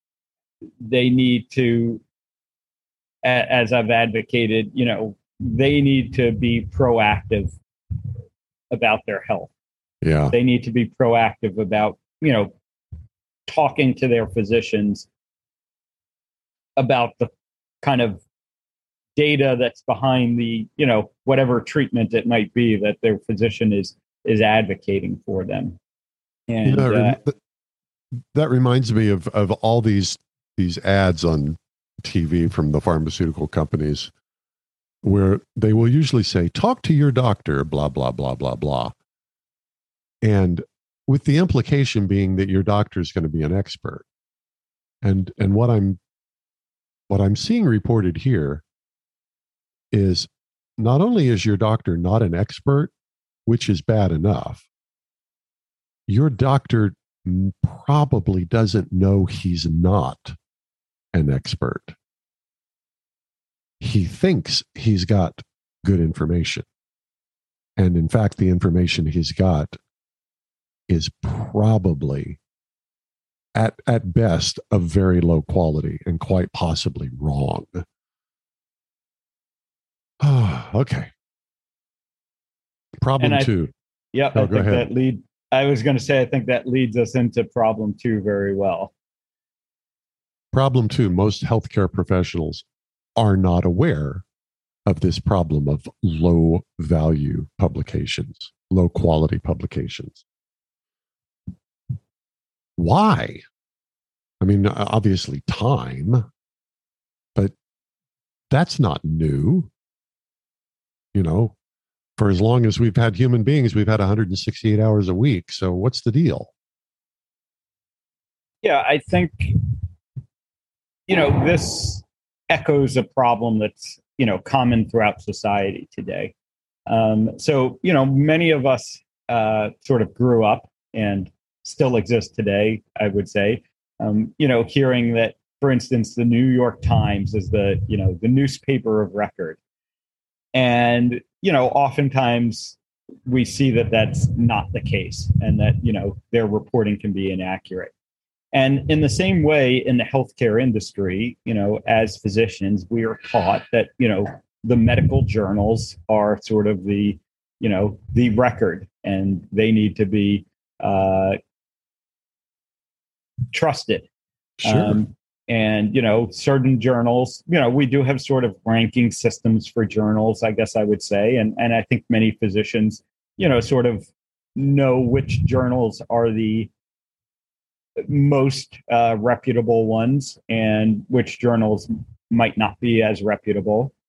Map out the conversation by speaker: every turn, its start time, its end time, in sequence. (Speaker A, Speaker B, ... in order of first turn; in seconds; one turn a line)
Speaker A: 0.8-2.0
Speaker A: 3.2-7.6
Speaker A: 8.7-9.5
Speaker B: 10.0-10.3
Speaker A: 10.3-12.5
Speaker A: 13.5-15.1
Speaker A: 16.8-18.2
Speaker A: 19.2-25.8
Speaker A: 26.5-27.2
Speaker B: 26.6-27.4
Speaker B: 28.3-34.1
Speaker B: 35.0-38.9
Speaker B: 40.2-44.1
Speaker B: 45.0-46.0
Speaker B: 47.1-48.6
Speaker B: 49.9-52.9
Speaker B: 53.5-54.7
Speaker B: 56.1-60.4
Speaker B: 61.1-62.0
Speaker B: 63.8-66.7
Speaker B: 67.8-69.8
Speaker B: 70.9-72.4
Speaker B: 73.5-77.8
Speaker B: 80.2-81.1
Speaker B: 83.0-83.7
Speaker A: 83.2-83.5
Speaker A: 84.1-88.9
Speaker B: 84.3-84.9
Speaker B: 90.5-92.7
Speaker B: 93.2-94.2
Speaker B: 94.9-100.2
Speaker B: 102.8-103.4
Speaker B: 104.4-106.3
Speaker B: 108.5-109.7
Speaker B: 111.1-111.6
Speaker B: 112.2-116.5
Speaker A: 118.6-119.6
Speaker A: 121.1-126.3
Speaker A: 126.9-139.6
Speaker A: 140.6-147.9
Speaker A: 148.5-161.4
Speaker A: 163.5-164.1
Speaker B: 164.6-165.0
Speaker A: 164.6-176.7
Speaker A: 178.0-183.9